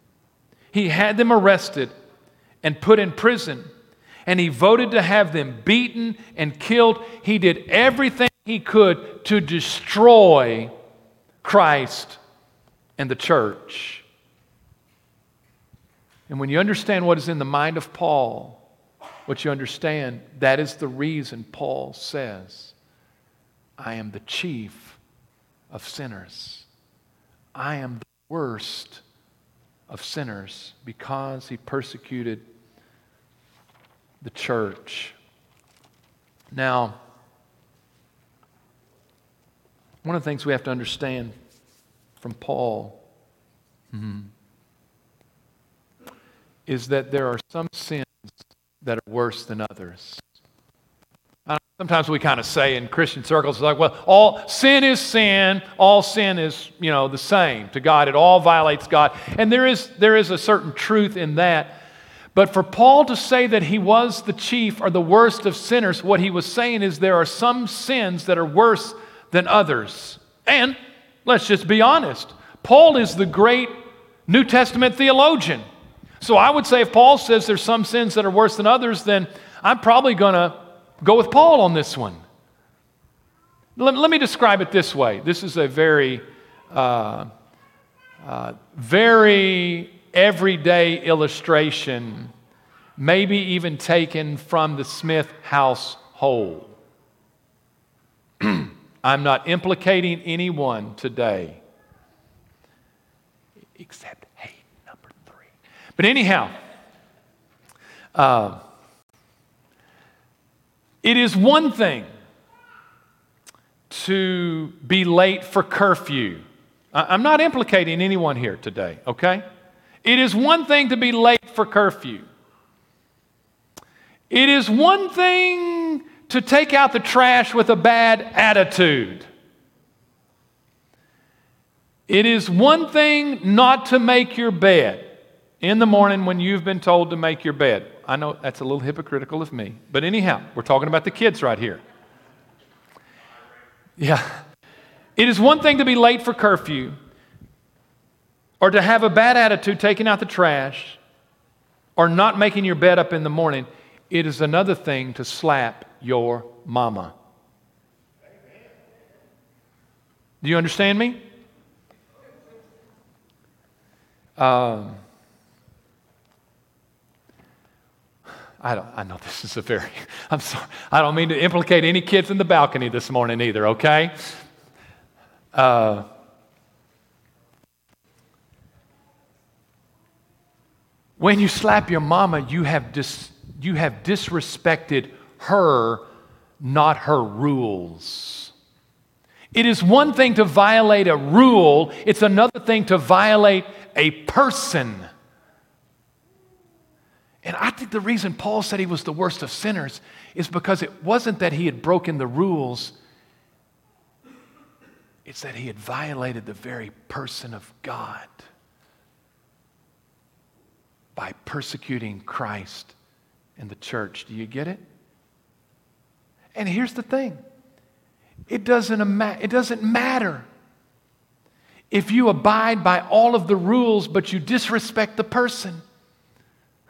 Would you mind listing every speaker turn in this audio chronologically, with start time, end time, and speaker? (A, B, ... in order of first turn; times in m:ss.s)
0:00.7-0:01.9 A
0:02.6-0:03.7 A
0:04.3-0:10.7 A
0:11.4-0:12.2 A
0:13.0-0:14.0 A
0:16.3-0:18.6 A
0:19.3-0:22.8 A
0:23.8-0:25.0 A
0:25.7-0:26.7 A
0:27.6-0:29.0 A
0:29.9-0:32.4 A
0:34.2-0:35.2 A
0:36.5-0:37.0 A
0:40.0-0:41.3 A
0:42.2-0:43.0 A
0:43.9-0:44.3 A
0:46.7-0:50.2 A
0:51.5-1:01.8 A
1:02.3-1:13.7 A
1:14.3-1:15.6 A
1:16.2-1:22.2 A
1:23.8-1:27.3 A
1:28.2-1:32.3 A
1:33.0-1:36.8 A
1:38.4-1:41.6 A
1:43.8-1:46.6 A
1:48.2-1:48.6 A
1:51.0-1:52.1 A
1:53.9-1:56.4 A
1:56.9-1:59.4 A
2:00.0-2:02.3 A
2:04.3-2:09.3 A
2:12.1-2:21.8 A
2:24.0-2:24.4 A
2:25.2-2:27.0 A
2:28.6-2:31.0 A
2:32.0-2:37.1 A
2:40.4-2:41.2 A
2:44.4-2:45.0 A
2:48.6-2:54.4 A
2:55.5-2:56.1 A
3:01.2-3:06.1 A
3:06.6-3:08.5 A
3:09.5-3:15.1 A
3:17.4-3:23.0 A
3:25.2-3:28.5 A
3:31.2-3:33.0 A
3:33.6-3:34.8 A
3:36.5-3:37.4 A
3:38.5-3:40.5 A
3:41.9-3:45.8 A